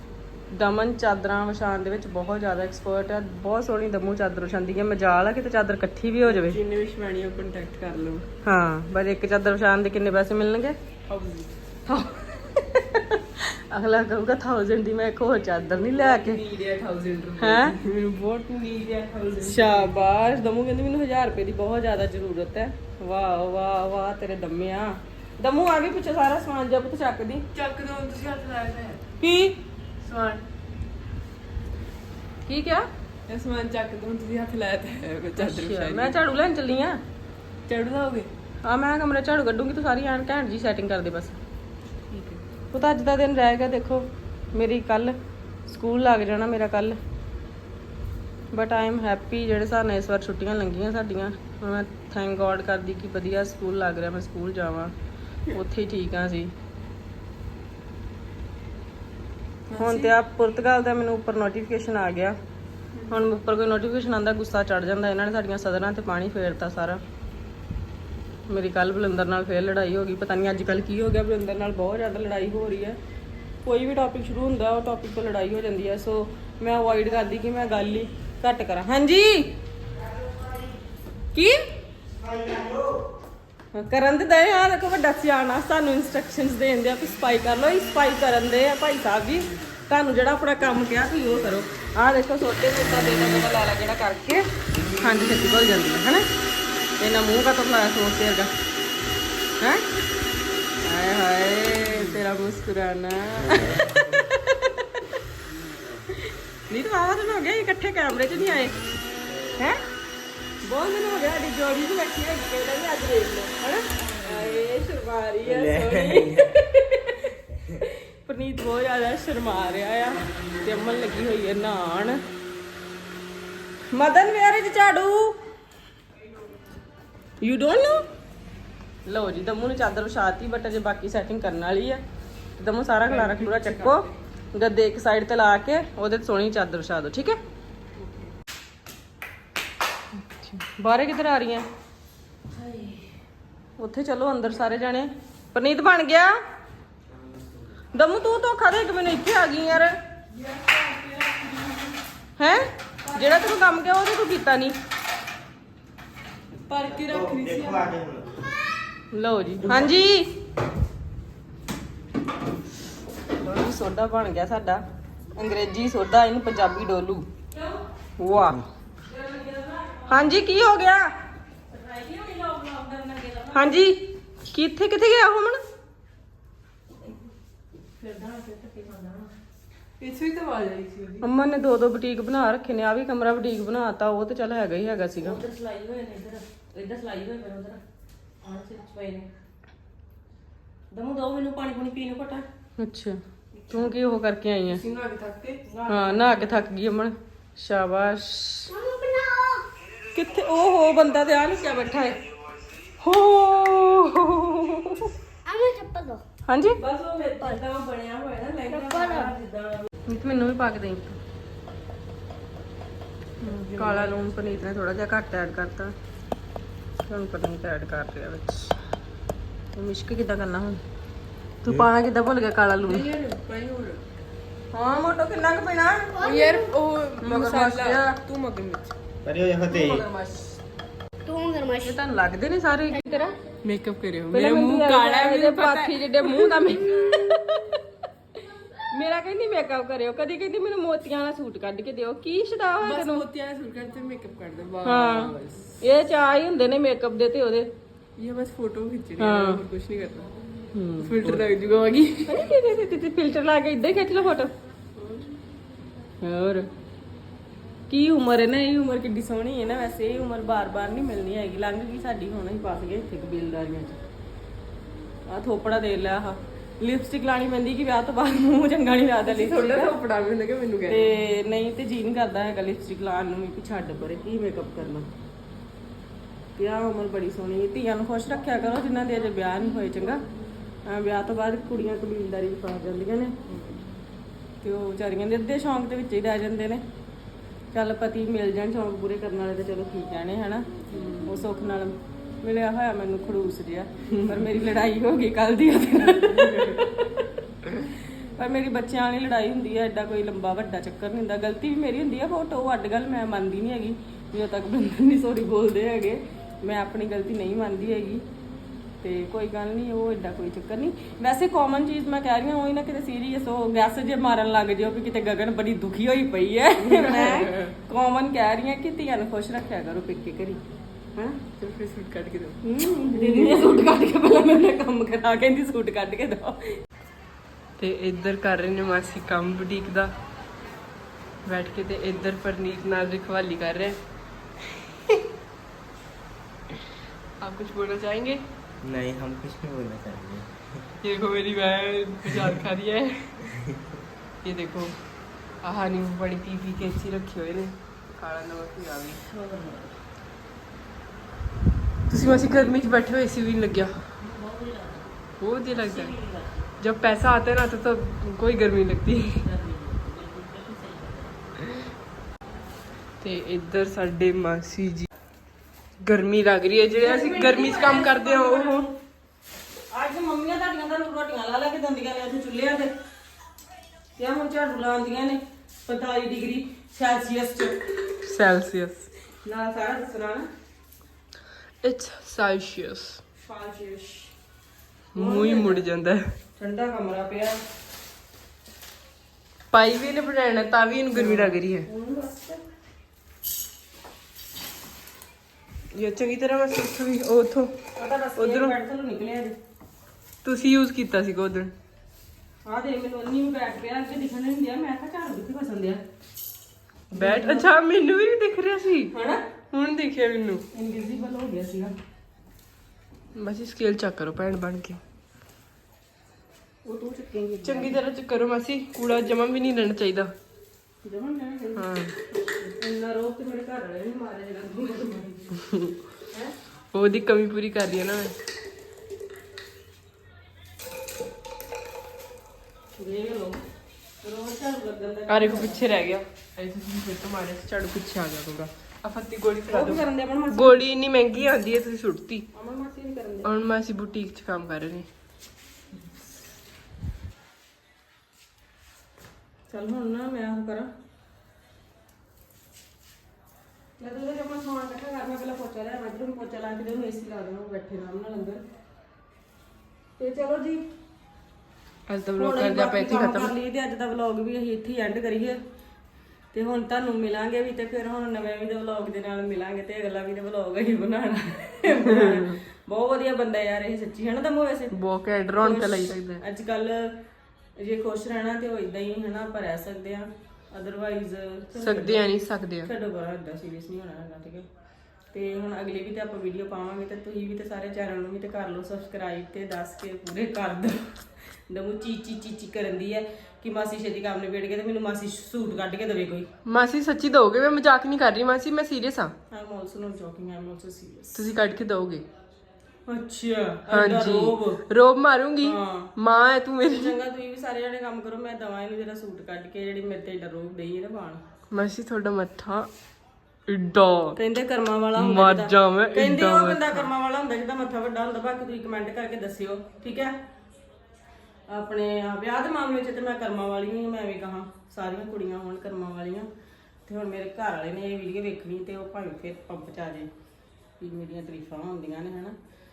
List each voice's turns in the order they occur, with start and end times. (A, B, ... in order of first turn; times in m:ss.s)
0:00.5-0:06.6 A
0:06.2-0:08.2 B
0:08.4-0:10.8 A
0:11.1-0:11.5 B
0:11.9-0:16.4 A
0:15.9-0:19.9 B
0:17.4-0:17.8 A
0:19.4-0:27.4 A
0:27.5-0:29.0 B
0:29.2-0:29.6 A
0:30.0-0:30.4 B
0:32.5-0:32.9 A
0:33.3-0:36.1 B
0:35.4-0:37.0 A
0:37.7-0:38.3 B
0:38.6-0:41.4 A
0:42.1-0:42.4 B
0:42.7-0:45.1 A
0:45.7-0:47.0 A
0:48.5-0:54.9 A
0:55.5-0:56.5 A
0:59.7-1:00.1 B
0:59.8-1:02.4 A
1:03.0-1:03.2 B
1:03.1-1:07.0 A
1:08.5-1:13.0 A
1:13.6-1:19.5 A
1:20.2-1:20.6 C
1:21.3-1:21.6 A
1:22.2-1:23.0 C
1:23.7-1:34.4 A
1:35.0-1:36.2 A
1:37.0-1:38.5 A
1:40.8-1:44.5 A
1:43.4-1:44.0 C
1:46.7-1:48.7 A
1:50.6-1:57.1 A
1:55.4-1:56.5 C
1:57.5-1:57.8 C
1:58.2-2:02.2 A
2:03.9-2:05.3 A
2:07.4-2:08.0 A
2:09.0-2:12.0 A
2:12.6-2:17.4 A
2:13.0-2:14.2 B
2:18.0-2:18.3 B
2:20.2-2:20.5 B
2:20.5-2:21.6 A
2:22.5-2:23.1 B
2:23.8-2:26.3 A
2:27.1-2:27.7 C
2:27.9-2:30.0 A
2:30.3-2:32.0 B
2:32.4-2:34.8 A
2:33.0-2:33.5 B
2:36.7-2:37.9 B
2:36.8-2:38.4 C
2:39.1-2:40.3 A
2:43.4-2:44.8 A
2:45.4-2:47.3 A
2:48.2-2:48.6 A
2:49.1-2:50.0 D
2:50.1-2:51.1 A
2:51.7-2:53.6 D
2:53.5-2:55.6 A
2:58.0-2:59.3 D
3:00.0-3:01.2 B
3:01.2-3:05.4 A
3:05.2-3:07.8 D
3:08.4-3:09.2 D
3:10.9-3:12.4 D
3:12.8-3:13.2 A
3:13.7-3:14.8 A
3:14.7-3:15.8 B
3:15.7-3:16.5 D
3:15.9-3:18.7 A
3:18.7-3:19.6 E
3:20.1-3:22.2 A
3:23.0-3:24.6 B
3:24.5-3:25.1 A
3:25.5-3:26.2 E
3:26.5-3:26.8 A
3:26.8-3:29.9 B
3:28.7-3:29.3 E
3:30.1-3:31.2 A
3:33.4-3:34.3 B
3:33.4-3:35.9 A
3:37.1-3:38.7 A
3:39.7-3:40.8 A
3:41.6-3:43.1 A
3:42.8-3:44.0 B
3:44.7-3:46.1 A
3:46.2-3:46.8 E
3:46.2-3:48.9 B
3:47.2-3:48.2 A
3:49.2-3:50.1 C
3:49.8-3:50.4 B
3:51.2-3:52.0 E
3:51.8-3:53.3 A
3:53.6-3:57.3 B
3:54.3-3:57.8 A
3:58.9-4:03.2 A
4:02.8-4:05.8 B
4:04.8-4:07.7 A
4:08.2-4:10.3 B
4:09.2-4:09.6 A
4:10.7-4:11.4 A
4:11.0-4:12.4 B
4:12.3-4:14.5 A
4:16.2-4:16.7 A
4:17.9-4:24.0 A
4:25.3-4:30.0 A
4:29.2-4:31.1 B
4:30.8-4:35.1 A
4:36.6-4:40.2 A
4:40.9-4:43.3 A
4:43.5-4:44.0 B
4:44.6-4:46.8 A
4:47.7-4:50.6 A
4:50.9-4:51.3 B
4:51.2-4:57.2 A
4:54.1-4:54.4 B
4:56.5-4:56.7 B
4:57.8-5:08.2 A
5:09.0-5:20.6 A
5:16.8-5:17.7 B
5:21.6-5:23.6 B
5:22.6-5:26.8 A
5:27.8-5:30.1 B
5:31.4-5:34.0 B
5:37.4-5:38.4 B
5:38.8-5:40.9 C
5:41.0-5:43.4 B
5:44.4-5:45.0 B
5:45.6-5:49.2 B
5:52.1-5:54.0 B
5:54.2-5:55.1 D
5:55.4-5:56.2 B
5:55.7-5:56.5 D
5:56.8-5:59.4 B
5:59.4-6:01.3 D
6:03.2-6:05.1 B
6:06.0-6:08.9 B
6:06.9-6:08.9 A
6:09.9-6:12.9 A
6:14.2-6:17.8 A
6:18.2-6:19.1 B
6:19.4-6:20.5 A
6:21.8-6:23.2 B
6:23.4-6:24.3 A
6:25.1-6:26.3 B
6:25.1-6:25.8 A
6:26.6-6:27.6 A
6:29.7-6:31.9 B
6:31.1-6:32.6 A
6:35.9-6:37.7 B
6:37.9-6:39.6 A
6:38.4-6:38.7 B
6:40.4-6:41.7 B
6:42.6-6:46.0 A
6:47.1-6:47.7 A
6:47.1-6:49.1 B
6:49.1-6:49.4 A
6:49.7-6:50.6 B
6:50.7-6:51.9 A
6:53.3-6:55.0 B
6:56.8-6:58.0 A
6:57.6-7:00.3 B
7:01.0-7:05.6 A
7:01.8-7:02.1 B
7:06.2-7:06.5 A
7:06.9-7:08.3 B
7:13.0-7:13.6 A
7:14.2-7:15.8 A
7:15.3-7:22.4 B
7:19.7-7:20.9 A
7:22.5-7:23.5 A
7:23.4-7:25.1 B
7:29.7-7:30.9 A
7:34.0-7:38.6 A
7:40.2-7:40.8 A
7:42.1-7:43.5 B
7:42.4-7:45.6 A
7:46.5-7:54.9 A
7:51.9-7:52.6 B
7:54.9-7:56.4 B
7:55.6-7:57.1 A
7:57.8-8:02.3 A
8:01.7-8:02.9 B
8:02.8-8:04.7 A
8:05.3-8:16.5 A
8:16.6-8:19.3 B
8:19.5-8:21.5 A
8:21.3-8:22.2 B
8:23.1-8:24.8 A
8:23.9-8:27.2 B
8:25.6-8:26.1 A
8:26.8-8:31.4 A
8:31.7-8:32.9 B
8:33.7-8:34.4 B
8:34.4-8:40.3 A
8:35.2-8:37.1 B
8:41.7-8:46.5 A
8:47.0-8:50.3 A
8:51.0-8:52.6 A